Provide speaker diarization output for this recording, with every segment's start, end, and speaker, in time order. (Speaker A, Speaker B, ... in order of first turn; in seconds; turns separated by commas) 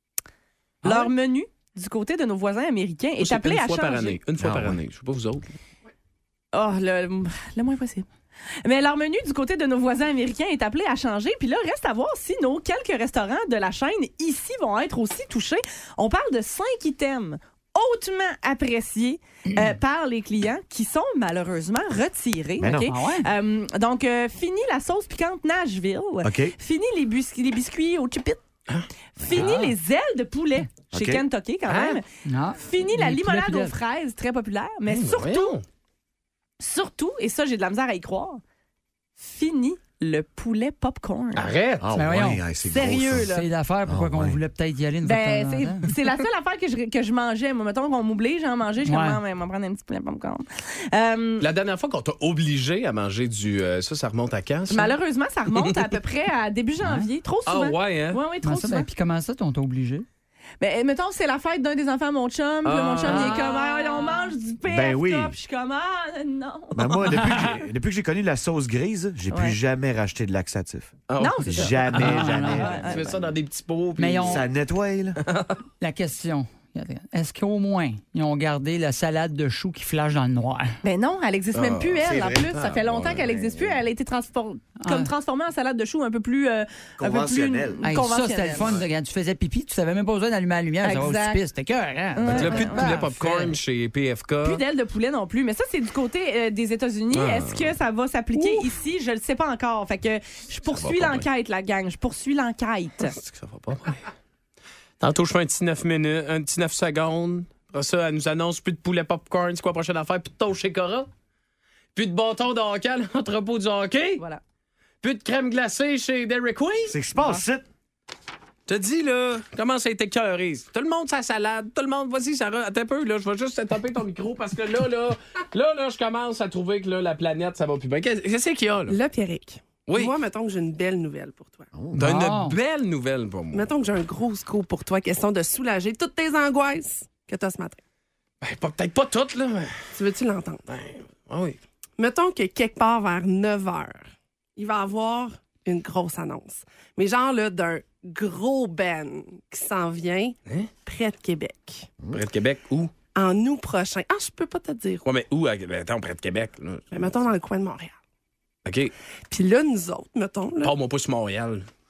Speaker A: 0.8-4.2, Speaker B: 0.8-1.1, Speaker B: 3.2-5.5, Speaker C: 4.4-4.8, Speaker A: 6.5-8.1, Speaker A: 8.6-28.4, Speaker C: 22.6-22.9, Speaker D: 22.9-23.3, Speaker C: 26.2-26.5, Speaker A: 29.2-35.6, Speaker D: 29.3-29.7, Speaker C: 30.9-31.2, Speaker B: 31.7-32.0, Speaker D: 32.2-33.7, Speaker B: 34.9-35.6, Speaker A: 36.6-38.4, Speaker A: 39.2-41.5, Speaker B: 41.3-41.9, Speaker C: 41.8-43.3, Speaker D: 41.9-42.4, Speaker A: 42.6-43.5, Speaker D: 43.2-45.9, Speaker C: 43.9-44.4, Speaker A: 45.0-51.5, Speaker D: 48.8-49.2, Speaker B: 51.4-55.0, Speaker A: 54.7-58.9, Speaker B: 55.5-55.9, Speaker D: 56.8-57.1, Speaker B: 57.5-58.2, Speaker D: 58.4-60.0, Speaker A: 60.6-67.6, Speaker B: 62.6-63.6, Speaker D: 63.0-64.1, Speaker C: 64.7-65.3, Speaker C: 66.7-72.9, Speaker A: 69.3-69.6, Speaker B: 71.1-74.4, Speaker A: 71.2-73.3, Speaker D: 71.9-72.8, Speaker D: 74.0-74.4, Speaker C: 74.2-75.2, Speaker B: 75.2-75.6, Speaker D: 75.8-80.8, Speaker A: 80.8-88.7, Speaker B: 81.5-83.5, Speaker C: 82.0-83.7, Speaker D: 84.8-85.1, Speaker C: 87.0-87.8, Speaker D: 87.8-93.5, Speaker A: 90.8-91.4, Speaker A: 92.1-93.0, Speaker B: 92.3-94.6, Speaker A: 94.4-103.1, Speaker B: 97.1-97.7, Speaker B: 100.7-101.3, Speaker B: 103.0-104.0, Speaker B: 105.0-111.1, Speaker B: 111.9-114.2, Speaker B: 115.0-117.0, Speaker C: 116.9-117.7, Speaker B: 118.7-128.9, Speaker E: 128.9-131.7, Speaker B: 129.9-130.1, Speaker C: 131.7-132.1, Speaker D: 131.9-132.6, Speaker B: 131.9-133.7, Speaker E: 133.5-137.8, Speaker B: 138.4-139.7, Speaker E: 139.9-141.1, Speaker B: 141.2-141.6, Speaker E: 142.0-151.9, Speaker B: 152.1-152.9, Speaker E: 153.1-155.0, Speaker B: 155.0-157.2, Speaker E: 156.9-158.0, Speaker B: 158.7-158.9, Speaker E: 159.3-160.7, Speaker B: 160.6-161.7